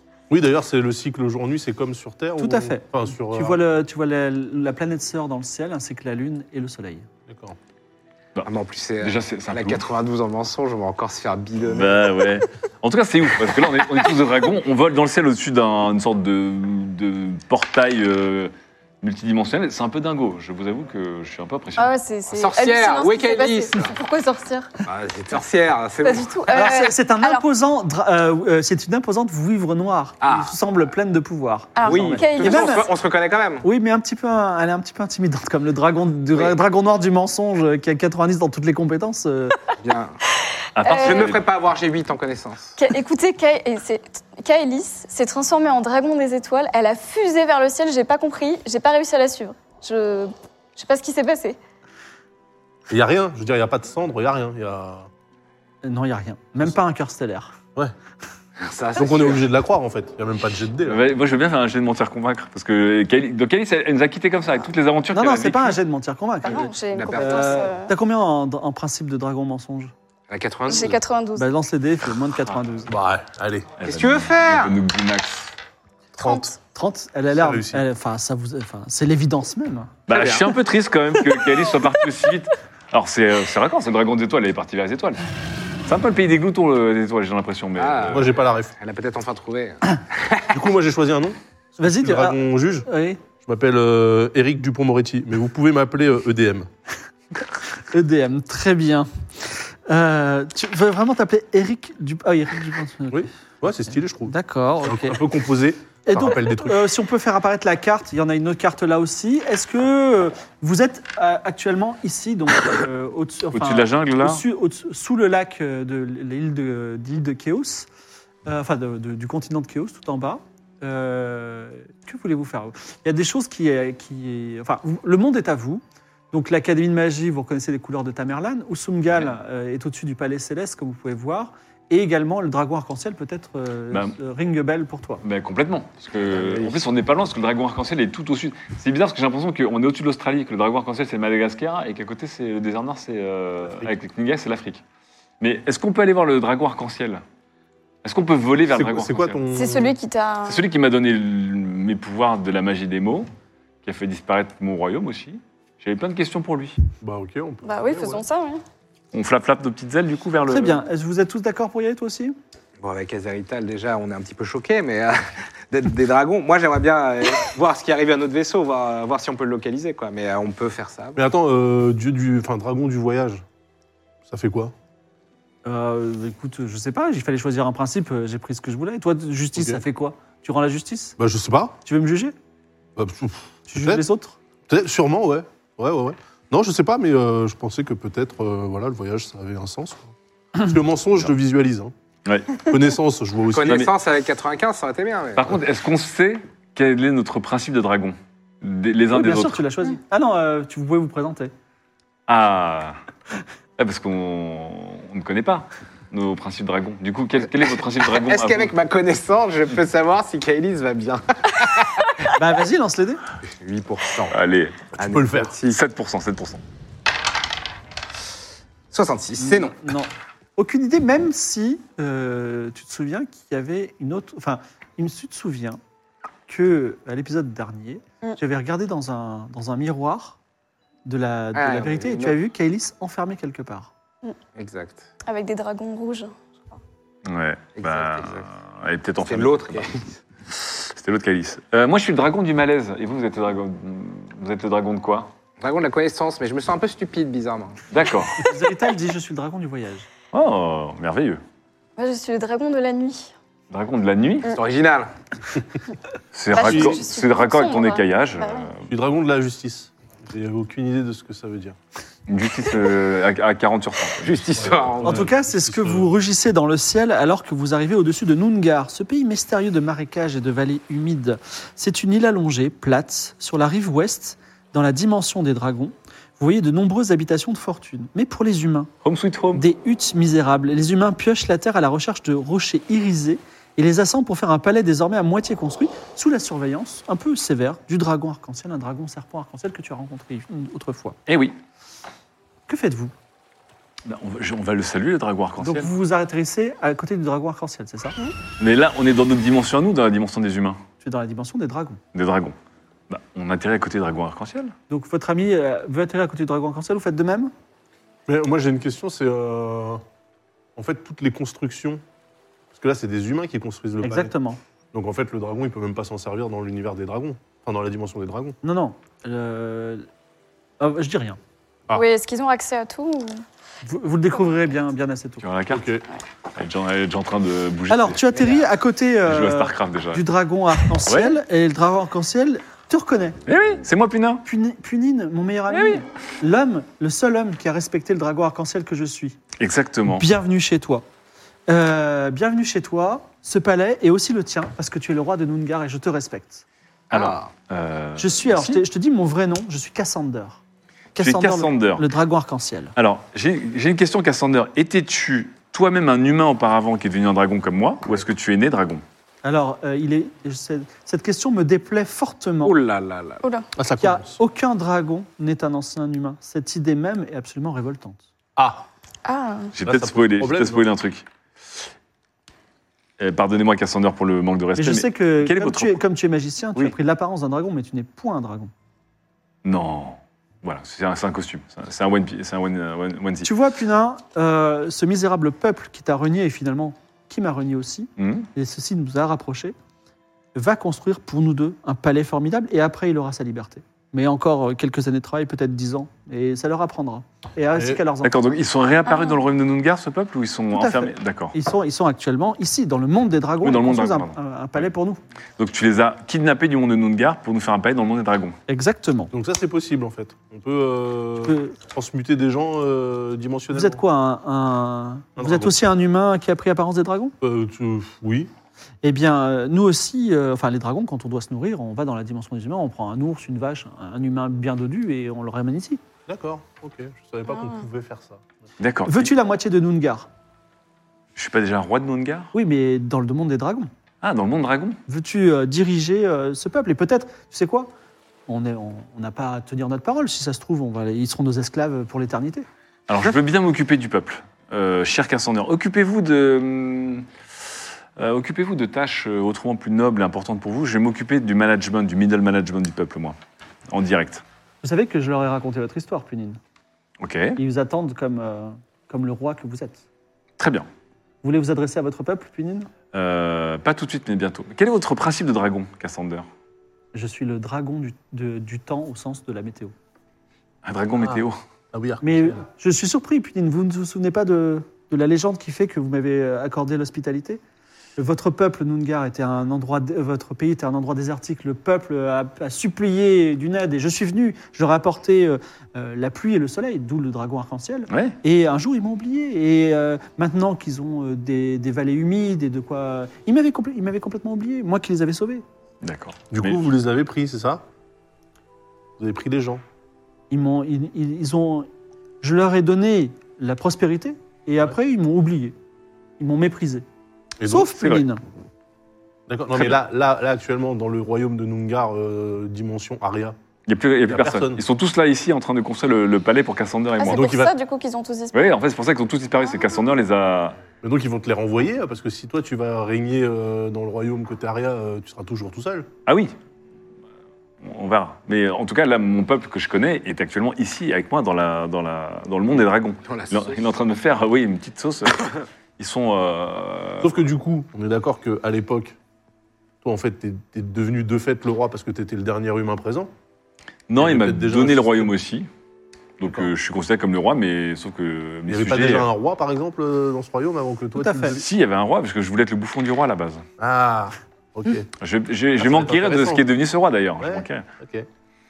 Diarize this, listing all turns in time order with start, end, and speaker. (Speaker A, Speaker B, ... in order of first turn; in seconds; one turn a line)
Speaker A: 0.3-3.6
Speaker B: 2.4-7.1
Speaker A: 7.3-7.5
Speaker C: 8.4-12.1
Speaker D: 9.0-9.8
Speaker D: 11.6-21.9
Speaker E: 21.8-24.7
Speaker C: 22.3-23.9
Speaker C: 24.9-26.3
Speaker E: 26.0-27.4
Speaker B: 26.5-32.9
Speaker C: 30.2-30.5
Speaker E: 31.8-32.8
Speaker C: 31.9-33.6
Speaker B: 33.6-39.6
Speaker C: 39.8-40.1
Speaker D: 40.8-41.4
Speaker E: 40.9-41.3
Speaker C: 40.9-42.7
Speaker E: 42.8-51.6
Speaker A: 52.9-55.1
Speaker B: 55.8-57.6
Speaker C: 58.6-59.4
Speaker A: 59.0-61.0
Speaker D: 60.9-65.8
Speaker B: 65.1-69.9
Speaker E: 66.4-67.9
Speaker C: 66.5-67.7
Speaker C: 70.3-71.0
Speaker E: 70.7-71.5
Speaker B: 71.3-72.9
Speaker A: 72.9-73.7
Speaker D: 73.8-75.5
Speaker C: 73.8-74.8
Speaker E: 76.2-76.5
Speaker B: 76.2-80.3
Speaker A: 77.3-77.8
Speaker D: 80.1-85.2
Speaker D: 85.8-88.3
Speaker C: 87.8-90.4
Speaker A: 88.1-88.7
Speaker A: 90.5-96.7
Speaker B: 91.8-93.2
Speaker B: 97.9-105.2
Speaker A: 103.1-106.8
Speaker B: 106.0-117.9
Speaker D: 113.5-114.4
Speaker B: 118.5-135.2
Speaker D: 135.2-144.8
Speaker A: 136.3-136.7
Speaker D: 145.4-147.2
Speaker D: 148.0-149.4
Speaker A: 148.7-149.9
Speaker E: 149.5-150.6
Speaker D: 150.4-153.3
Speaker D: 153.8-156.8
Speaker A: 157.0-158.2
Speaker E: 157.6-158.6
Speaker D: 159.1-160.8
Speaker B: 160.5-162.3
Speaker C: 162.8-171.2
Speaker A: 171.2-173.4
Speaker A: 174.3-174.7
Speaker B: 175.7-181.2
Speaker A: 179.6-179.8
Speaker A: 181.2-181.8
Speaker B: 181.8-182.3
Speaker A: 183.0-184.0
Speaker B: 183.7-184.4
Speaker A: 184.7-191.9
Speaker D: 192.2-192.6
Speaker A: 192.7-193.8
Speaker C: 193.5-195.5
Speaker D: 195.3-199.6
Speaker B: 199.1-201.5
Speaker D: 202.3-203.0
Speaker D: 203.8-208.7
Speaker C: 207.6-211.9
Speaker B: 212.3-213.2
Speaker C: 213.5-214.3
Speaker D: 214.3-214.9
Speaker A: 215.0-215.5
Speaker C: 215.0-215.8
Speaker D: 215.7-216.6
Speaker C: 218.9-219.8
Speaker B: 219.4-225.8
Speaker B: 226.5-230.4
Speaker B: 231.1-233.9
Speaker C: 231.5-232.4
Speaker C: 234.6-235.1
Speaker E: 235.2-236.8
Speaker D: 237.2-240.0
Speaker C: 237.8-238.5
Speaker C: 239.2-240.2
Speaker D: 240.6-245.3
Speaker C: 245.6-247.8
Speaker D: 247.9-248.4
Speaker B: 248.4-250.1
Speaker D: 250.3-251.4
Speaker E: 252.0-253.3
Speaker D: 253.7-254.5
Speaker C: 254.5-255.1
Speaker D: 256.3-258.8
Speaker E: 256.5-258.7
Speaker A: 256.6-257.0
Speaker A: 258.9-261.8
Speaker D: 262.3-264.8
Speaker C: 264.2-265.2
Speaker A: 264.6-266.1
Speaker B: 265.0-278.9
Speaker D: 279.0-279.6
Speaker B: 279.5-291.2
Speaker D: 291.3-291.6
Speaker B: 292.7-293.1
Speaker D: 294.0-295.9
Speaker B: 295.6-298.1
Speaker D: 298.6-300.8
Speaker B: 301.0-302.0
Speaker D: 302.1-302.5
Speaker D: 303.1-304.7
Speaker B: 304.9-307.5
Speaker A: 308.3-310.0
Speaker A: 310.8-312.0
Speaker A: 312.7-314.3
Speaker B: 314.0-314.6
Speaker A: 314.9-318.6
Speaker B: 318.6-320.1
Speaker B: 320.8-321.4
Speaker E: 321.9-323.4
Speaker B: 323.8-325.4
Speaker D: 325.4-325.9
Speaker A: 325.7-326.0
Speaker D: 326.6-328.2
Speaker B: 327.9-333.4
Speaker D: 329.2-330.2
Speaker D: 331.1-331.4
Speaker D: 333.4-334.4
Speaker B: 334.4-339.4
Speaker D: 335.7-336.0
Speaker D: 339.6-340.3
Speaker B: 340.1-341.0
Speaker B: 341.7-346.6
Speaker D: 347.1-348.8
Speaker C: 347.1-347.5
Speaker B: 348.2-350.6
Speaker B: 351.1-352.9
Speaker D: 351.2-352.0
Speaker D: 352.9-359.0
Speaker B: 359.4-362.7
Speaker C: 362.6-363.4
Speaker A: 363.8-364.4
Speaker B: 364.0-368.3
Speaker A: 368.6-368.8
Speaker E: 369.2-369.7
Speaker D: 369.7-371.2
Speaker A: 369.8-370.9
Speaker D: 373.2-376.0
Speaker B: 374.8-378.7
Speaker D: 379.6-383.5
Speaker B: 383.4-389.8
Speaker D: 388.2-388.5
Speaker B: 390.5-398.4
Speaker A: 397.7-398.0
Speaker D: 398.2-401.5
Speaker E: 399.1-399.4
Speaker B: 400.7-405.2
Speaker D: 403.6-404.8
Speaker D: 405.6-408.6
Speaker B: 408.7-409.3
Speaker A: 409.3-414.0
Speaker B: 411.4-411.8
Speaker B: 413.7-417.3
Speaker A: 415.4-415.8
Speaker A: 417.4-418.5
Speaker B: 419.0-426.0
Speaker A: 426.3-428.5
Speaker E: 427.5-427.8
Speaker D: 428.8-429.3
Speaker B: 429.1-430.3
Speaker D: 431.4-432.5
Speaker B: 432.5-433.9
Speaker D: 434.2-435.0
Speaker B: 435.1-437.9
Speaker B: 438.5-442.6
Speaker D: 443.1-447.2
Speaker D: 448.2-453.4
Speaker D: 453.9-454.4
Speaker B: 454.8-456.6
Speaker D: 457.2-457.6
Speaker B: 457.6-460.0
Speaker D: 460.6-460.9
Speaker B: 461.4-462.9
Speaker D: 463.1-466.5
Speaker B: 467.1-469.9
Speaker D: 470.8-471.6
Speaker A: 471.9-472.6
Speaker B: 472.2-477.6
Speaker B: 478.2-495.6
Speaker D: 488.1-488.4
Speaker D: 496.0-496.8
Speaker A: 496.5-497.8
Speaker A: 499.2-499.8
Speaker B: 500.5-501.9
Speaker B: 502.4-505.7
Speaker B: 506.4-507.0
Speaker A: 507.6-507.9
Speaker B: 507.7-508.4
Speaker A: 509.5-513.5
Speaker D: 509.7-510.0
Speaker D: 513.9-517.7
Speaker A: 514.3-514.8
Speaker E: 517.2-518.6
Speaker D: 518.5-520.8
Speaker A: 521.0-526.1
Speaker D: 526.2-526.5
Speaker D: 527.8-537.4
Speaker C: 533.2-533.8
Speaker A: 537.2-539.1
Speaker A: 540.0-543.3
Speaker D: 544.1-545.7
Speaker A: 544.1-545.3
Speaker D: 546.4-549.3
Speaker A: 546.4-546.7
Speaker A: 548.7-551.6
Speaker B: 551.1-551.6
Speaker D: 551.6-553.6
Speaker A: 553.8-555.1
Speaker D: 555.2-557.8
Speaker A: 555.8-556.6
Speaker A: 557.4-558.3